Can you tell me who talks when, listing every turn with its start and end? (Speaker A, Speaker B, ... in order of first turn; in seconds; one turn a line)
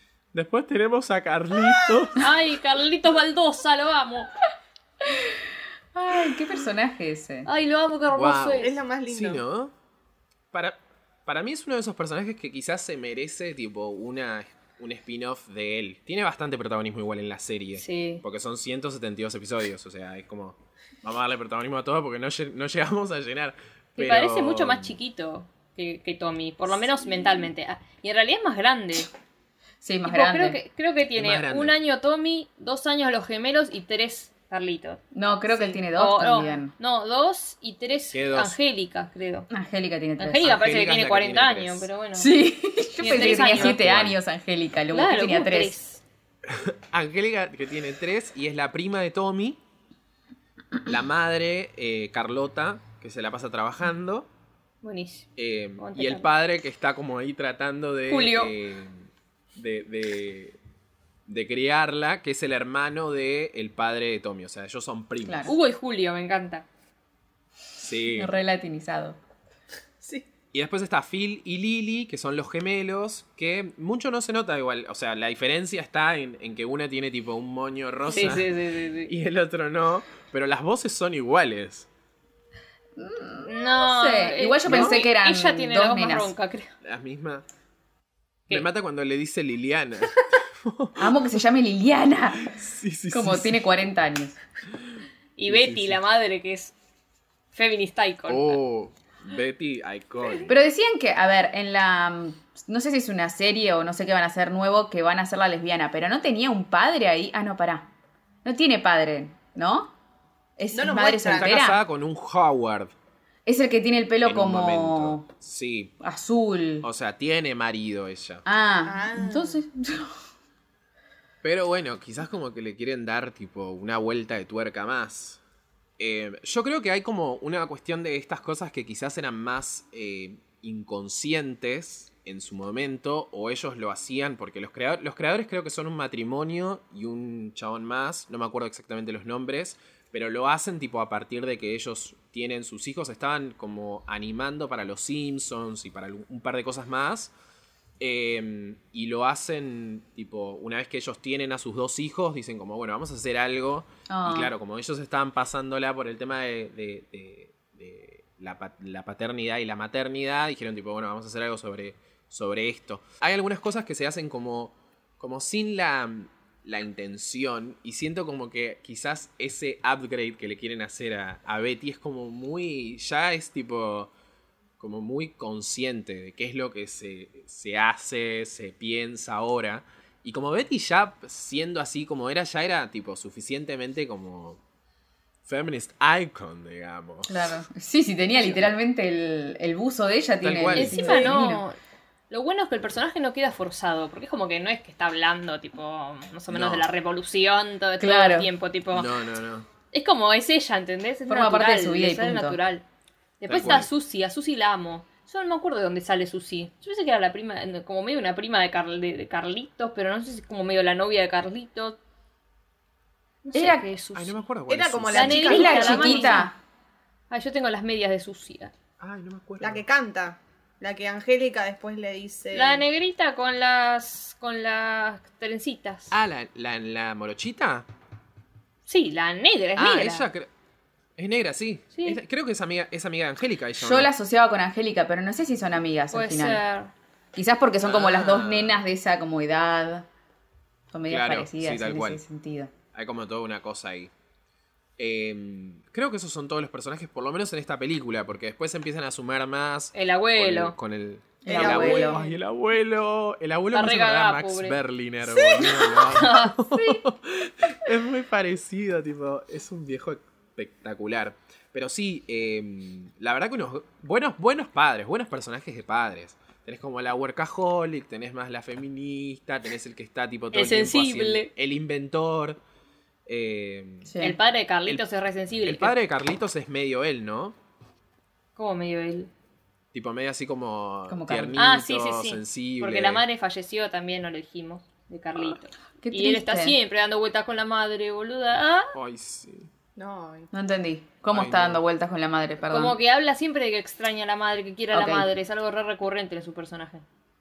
Speaker A: 0.3-2.2
Speaker B: 1.6-2.1
Speaker C: 2.2-4.3
Speaker D: 5.0-5.3
Speaker D: 5.9-7.5
Speaker C: 7.4-8.7
Speaker A: 8.1-9.7
Speaker B: 8.6-9.4
Speaker A: 10.5-25.0
Speaker C: 17.8-18.2
Speaker C: 24.0-29.1
Speaker D: 29.8-30.6
Speaker C: 30.0-35.0
Speaker A: 31.1-31.8
Speaker D: 35.1-36.7
Speaker B: 35.5-35.8
Speaker C: 35.9-39.5
Speaker A: 38.1-38.6
Speaker D: 39.5-40.5
Speaker C: 40.2-42.3
Speaker A: 40.4-41.9
Speaker D: 42.1-45.7
Speaker C: 43.0-43.8
Speaker A: 43.0-44.2
Speaker C: 44.9-46.0
Speaker A: 46.5-49.6
Speaker A: 50.8-54.3
Speaker C: 54.8-56.3
Speaker A: 55.4-60.6
Speaker C: 58.1-58.5
Speaker A: 61.3-65.5
Speaker D: 65.2-65.5
Speaker C: 65.5-66.7
Speaker A: 67.8-68.3
Speaker D: 68.1-69.2
Speaker A: 70.5-78.5
Speaker C: 78.1-79.1
Speaker A: 79.0-81.9
Speaker D: 83.0-86.3
Speaker C: 83.4-86.7
Speaker A: 86.8-87.4
Speaker A: 88.5-91.2
Speaker D: 91.0-92.6
Speaker A: 92.4-93.6
Speaker D: 93.1-94.4
Speaker C: 95.4-96.7
Speaker A: 95.5-96.0
Speaker C: 97.5-98.6
Speaker A: 98.3-100.5
Speaker D: 100.5-107.9
Speaker D: 108.4-109.9
Speaker D: 110.6-111.8
Speaker B: 110.7-111.5
Speaker A: 111.3-112.9
Speaker D: 113.5-115.3
Speaker A: 114.2-115.9
Speaker D: 116.0-116.8
Speaker A: 116.8-118.4
Speaker D: 118.4-120.2
Speaker B: 118.8-119.6
Speaker A: 121.4-125.4
Speaker A: 126.0-147.3
Speaker A: 148.0-174.1
Speaker D: 154.1-154.5
Speaker A: 174.8-184.6
Speaker A: 185.4-187.6
Speaker D: 187.3-191.6
Speaker A: 190.4-191.1
Speaker C: 190.7-191.8
Speaker B: 191.1-191.3
Speaker C: 192.3-199.1
Speaker A: 196.5-196.8
Speaker D: 198.0-198.5
Speaker A: 198.9-199.7
Speaker C: 199.9-202.8
Speaker D: 201.3-202.6
Speaker C: 203.4-212.0
Speaker A: 203.5-203.9
Speaker C: 213.4-214.3
Speaker D: 213.5-213.9
Speaker A: 214.1-215.8
Speaker B: 214.7-216.4
Speaker C: 215.1-216.5
Speaker D: 215.4-216.6
Speaker C: 217.3-218.7
Speaker A: 219.0-219.8
Speaker B: 219.6-222.8
Speaker C: 222.5-226.1
Speaker A: 226.1-227.9
Speaker C: 228.9-230.3
Speaker A: 229.8-230.5
Speaker A: 231.2-234.1
Speaker C: 231.9-232.2
Speaker D: 233.8-236.6
Speaker C: 236.1-236.9
Speaker D: 237.3-240.1
Speaker A: 237.8-238.8
Speaker D: 240.9-242.7
Speaker A: 241.1-242.2
Speaker A: 242.9-244.1
Speaker A: 245.0-272.6
Speaker C: 249.9-250.8
Speaker D: 251.4-252.2
Speaker B: 251.4-252.3
Speaker C: 253.7-254.8
Speaker B: 255.2-256.1
Speaker C: 256.0-256.6
Speaker C: 270.5-271.5
Speaker A: 273.3-274.1
Speaker D: 274.1-274.4
Speaker C: 274.2-275.9
Speaker A: 275.6-277.6
Speaker C: 278.6-279.3
Speaker A: 279.9-283.2
Speaker D: 281.1-281.6
Speaker C: 281.6-288.9
Speaker D: 286.0-286.8
Speaker A: 288.9-289.7
Speaker B: 289.9-290.5
Speaker D: 290.5-293.0
Speaker A: 291.3-291.8
Speaker C: 292.7-297.0
Speaker D: 294.9-295.3